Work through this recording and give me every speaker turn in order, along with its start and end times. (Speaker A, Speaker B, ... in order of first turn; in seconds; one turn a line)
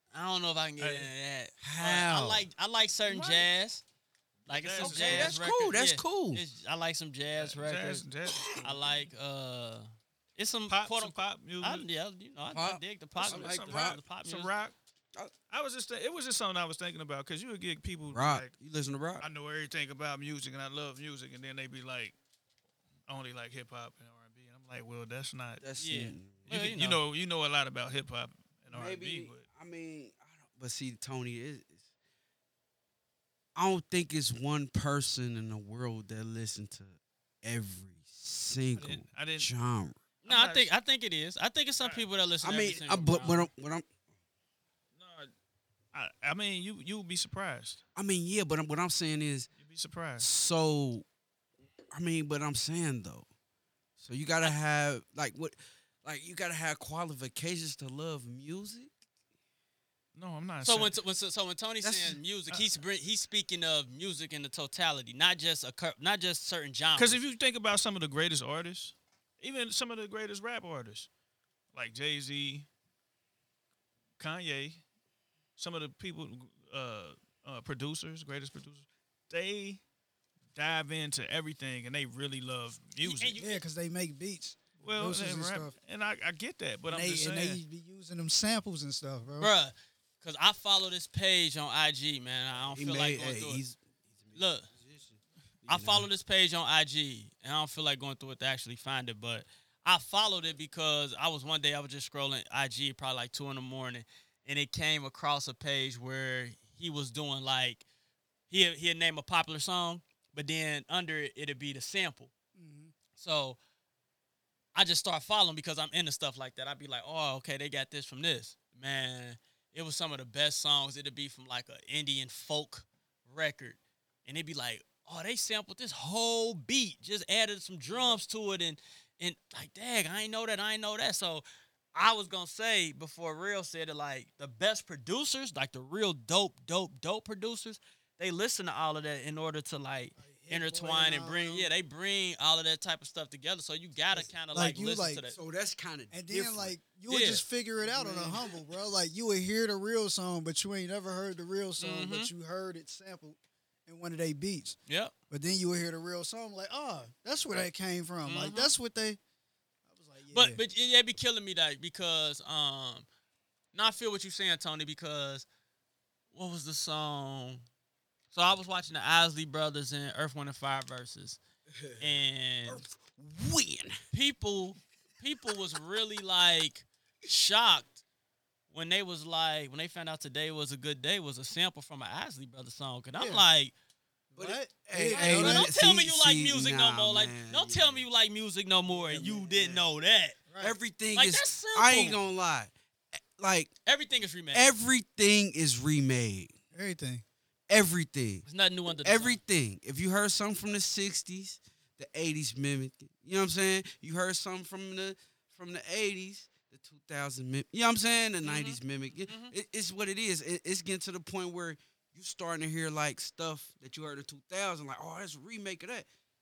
Speaker A: 0.1-3.8
Speaker B: 0.8-1.1
Speaker C: 1.6-2.5
Speaker B: 3.1-3.4
Speaker A: 4.5-8.1
Speaker B: 4.5-5.4
Speaker C: 4.8-6.4
Speaker B: 7.3-9.0
Speaker A: 8.6-14.5
Speaker B: 10.7-11.8
Speaker C: 12.5-14.0
Speaker B: 13.2-14.7
Speaker B: 15.5-18.5
Speaker C: 18.1-19.3
Speaker B: 19.2-22.1
Speaker B: 23.1-25.6
Speaker C: 25.6-26.5
Speaker A: 25.8-27.0
Speaker B: 26.5-29.4
Speaker C: 28.7-31.8
Speaker C: 33.5-40.0
Speaker B: 38.8-39.5
Speaker B: 40.2-40.7
Speaker A: 40.2-43.5
Speaker C: 42.4-43.9
Speaker B: 45.0-45.3
Speaker B: 45.9-47.8
Speaker C: 48.0-49.5
Speaker B: 49.6-50.3
Speaker C: 50.2-51.0
Speaker C: 51.9-53.2
Speaker C: 54.0-58.9
Speaker B: 60.1-60.9
Speaker A: 60.6-67.2
Speaker C: 61.8-62.2
Speaker B: 67.0-71.1
Speaker B: 71.7-72.7
Speaker B: 74.2-74.8
Speaker B: 75.6-79.8
Speaker B: 80.5-83.3
Speaker A: 83.0-83.6
Speaker D: 83.4-85.7
Speaker B: 84.8-87.6
Speaker D: 86.9-89.5
Speaker A: 89.4-93.6
Speaker C: 92.7-96.1
Speaker A: 94.3-94.7
Speaker A: 95.7-107.8
Speaker A: 108.5-112.3
Speaker D: 112.5-112.9
Speaker A: 113.2-113.6
Speaker A: 114.7-145.4
Speaker D: 140.2-141.7
Speaker D: 144.1-145.2
Speaker C: 145.3-146.8
Speaker D: 146.1-154.8
Speaker A: 147.1-147.4
Speaker C: 147.8-148.5
Speaker A: 151.8-152.3
Speaker A: 154.9-155.1
Speaker D: 155.3-159.2
Speaker A: 158.2-158.7
Speaker D: 159.9-160.6
Speaker A: 160.3-163.1
Speaker A: 163.7-165.4
Speaker A: 166.3-167.6
Speaker A: 168.3-171.4
Speaker C: 171.8-174.0
Speaker A: 172.0-172.8
Speaker A: 174.1-178.0
Speaker A: 178.7-183.7
Speaker D: 183.2-183.4
Speaker C: 184.3-188.1
Speaker D: 184.3-185.7
Speaker A: 185.1-190.4
Speaker C: 188.9-189.8
Speaker D: 190.5-190.8
Speaker C: 190.6-192.7
Speaker A: 191.1-192.2
Speaker C: 193.4-193.7
Speaker A: 193.8-194.7
Speaker C: 194.5-196.5
Speaker D: 196.7-197.2
Speaker C: 197.7-198.5
Speaker A: 198.4-199.4
Speaker C: 199.0-216.1
Speaker A: 208.4-209.5